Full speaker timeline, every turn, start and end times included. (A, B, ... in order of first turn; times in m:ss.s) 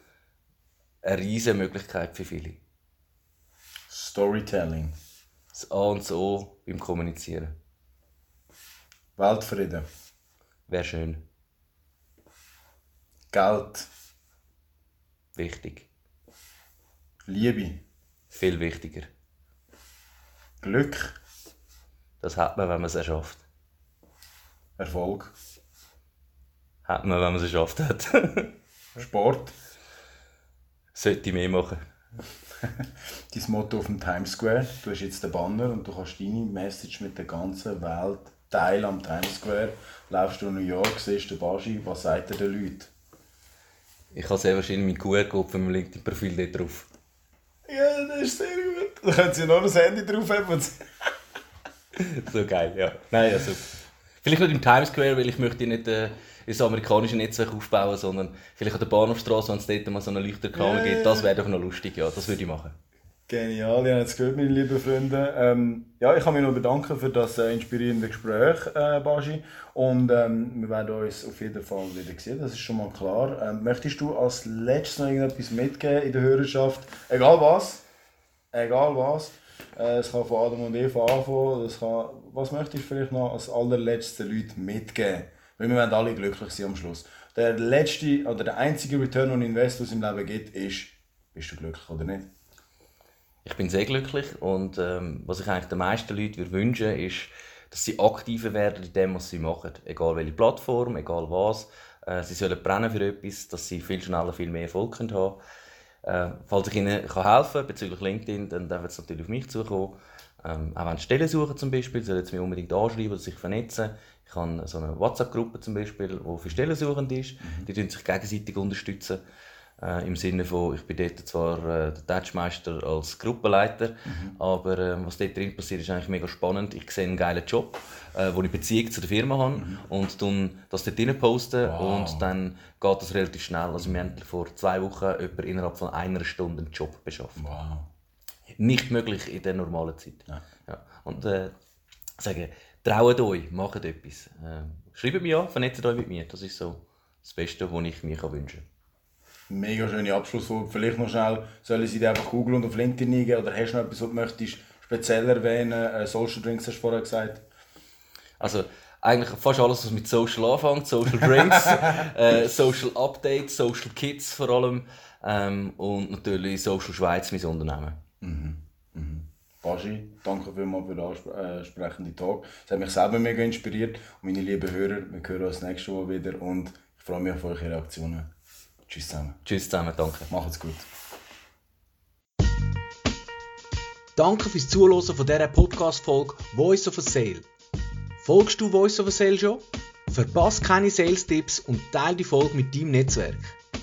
0:01.0-0:02.6 A
0:03.9-0:05.0 B
0:05.5-0:07.5 A
0:09.2-0:09.9 B
0:10.7-0:11.2 A
0:13.3-0:13.9 B
0:15.4-0:15.9 A
0:17.3-0:17.8 B
0:18.3-0:19.1 A
0:20.6-0:21.2 B
0:22.2-0:23.4 A
0:24.8-0:25.3 B
0:26.9-0:28.5 A
0:29.0-0:29.5 B
0:30.9-0:31.8 A
0:32.6-0:42.9 B
0:44.1-0:46.9 A
0:47.7-0:51.1 B
0:52.0-1:02.8 A
1:00.5-1:01.3 B
1:03.3-1:17.8 B
1:18.5-1:32.3 B
1:33.4-1:45.4 A
1:46.0-1:59.2 A
1:57.4-1:57.7 B
1:59.8-2:17.4 A
2:04.1-2:04.4 B
2:09.6-2:09.8 B
2:11.6-2:12.3 B
2:13.8-2:14.1 B
2:17.4-2:17.9 B
2:18.6-2:21.6 A
2:22.2-2:28.6 A
2:29.5-2:37.4 B
2:38.4-2:48.0 A
2:41.7-2:42.1 B
2:48.2-2:58.3 B
2:58.9-2:59.4 B
2:59.4-3:00.3 A
3:00.3-3:00.9 B
3:04.2-3:07.5 C
3:08.2-3:13.6 C